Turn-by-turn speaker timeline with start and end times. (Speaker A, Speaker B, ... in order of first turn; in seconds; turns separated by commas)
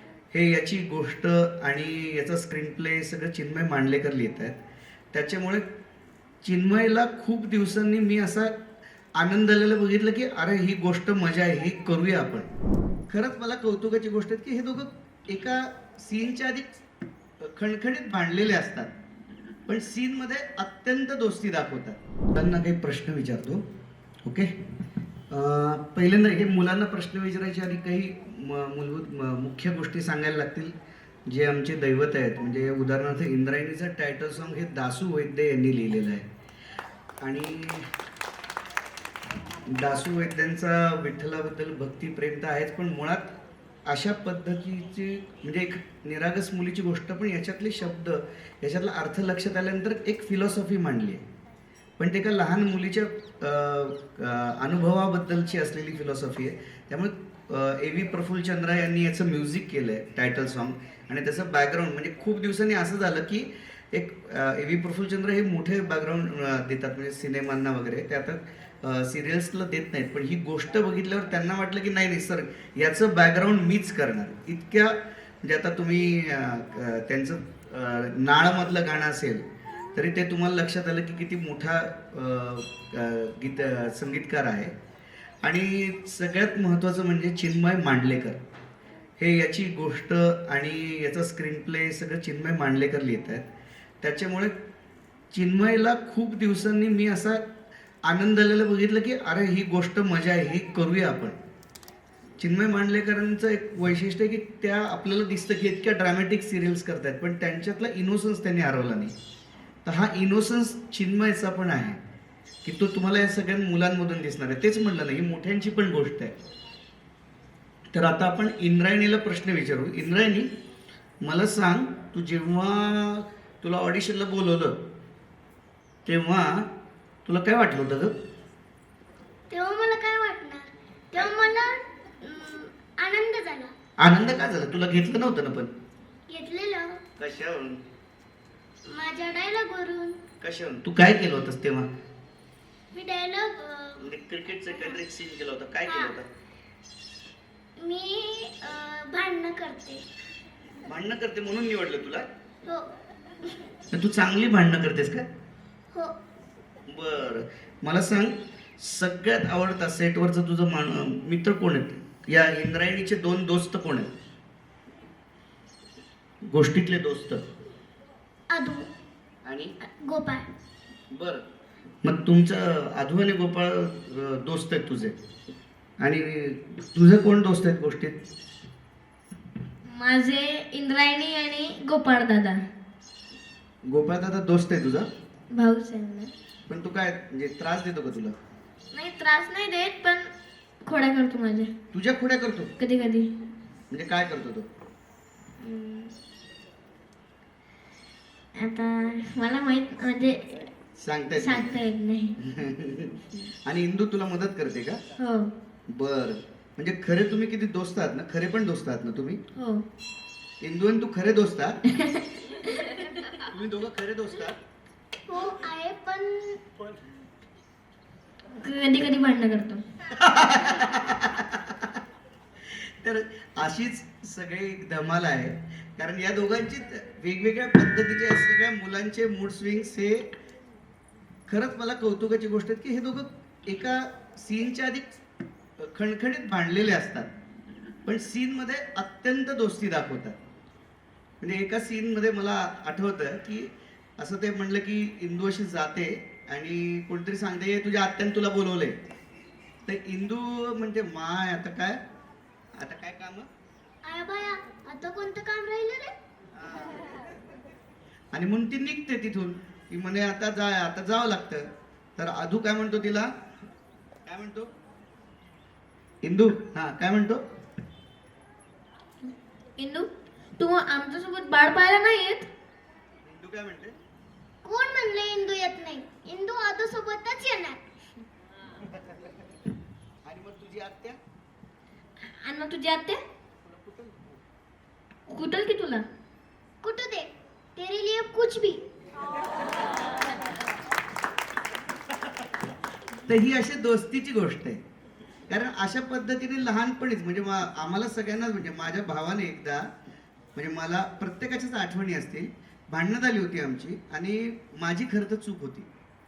Speaker A: 0.3-4.6, Speaker A: 5.1-5.7, Speaker A: 6.4-8.6, Speaker A: 9.2-12.5, Speaker A: 13.1-16.7, Speaker A: 17.4-18.9, Speaker A: 19.7-23.6, Speaker A: 24.2-24.5, Speaker A: 25.3-30.8, Speaker A: 31.3-36.3, Speaker A: 37.2-37.9, Speaker A: 39.7-43.4, Speaker A: 43.9-51.2, Speaker A: 52.0-84.7, Speaker A: 85.4-88.4, Speaker A: 89.2-93.5, Speaker A: 94.0-94.5, Speaker A: 95.3-97.4, Speaker A: 98.0-101.4, Speaker A: 102.4-109.1, Speaker A: 109.8-112.0, Speaker A: 112.7-116.4, Speaker A: 117.9-120.5, Speaker A: 121.2-124.8, Speaker A: 126.0-126.7, Speaker A: 127.3-128.1, Speaker B: 129.5-133.7, Speaker A: 134.0-135.7, Speaker B: 136.3-137.0, Speaker A: 137.2-137.8, Speaker B: 138.9-140.2, Speaker A: 140.4-141.9, Speaker B: 142.9-144.1, Speaker A: 144.0-146.3, Speaker B: 144.7-145.0, Speaker B: 145.9-146.1, Speaker B: 147.8-150.0, Speaker A: 150.9-152.2, Speaker A: 153.9-155.3, Speaker A: 156.9-164.1, Speaker A: 166.5-167.5, Speaker B: 168.5-168.9, Speaker A: 169.4-169.8, Speaker B: 170.1-170.5, Speaker A: 171.1-171.4, Speaker A: 172.0-175.2, Speaker A: 176.0-178.2, Speaker C: 179.9-182.6, Speaker A: 183.9-185.1, Speaker C: 185.5-186.3, Speaker A: 186.7-188.4, Speaker C: 188.9-190.3, Speaker C: 190.8-191.7, Speaker A: 191.9-192.7, Speaker C: 192.8-193.3, Speaker A: 193.9-194.7, Speaker C: 195.6-196.2, Speaker C: 198.6-200.7, Speaker A: 201.0-201.8, Speaker C: 201.4-202.4, Speaker A: 202.4-205.0, Speaker C: 205.2-205.5, Speaker A: 205.9-209.4, Speaker C: 209.6-209.8, Speaker A: 210.6-211.8, Speaker C: 211.9-213.1, Speaker A: 213.4-214.6, Speaker B: 215.3-216.6, Speaker C: 218.6-219.8, Speaker A: 220.1-221.9, Speaker A: 222.6-230.3, Speaker A: 231.5-235.1, Speaker A: 235.8-237.3, Speaker A: 238.1-240.4, Speaker A: 241.4-249.0, Speaker A: 249.9-252.0, Speaker A: 252.8-253.5, Speaker B: 254.1-256.1, Speaker A: 256.6-257.1, Speaker A: 258.3-263.3, Speaker A: 264.3-264.7, Speaker A: 266.2-267.4, Speaker C: 269.8-272.5, Speaker A: 273.2-273.9, Speaker B: 274.6-277.8, Speaker A: 280.2-281.2, Speaker C: 282.2-283.2, Speaker A: 283.8-284.3, Speaker C: 285.3-286.1, Speaker B: 286.8-288.8, Speaker A: 293.3-294.8, Speaker A: 295.5-299.9, Speaker A: 300.6-305.9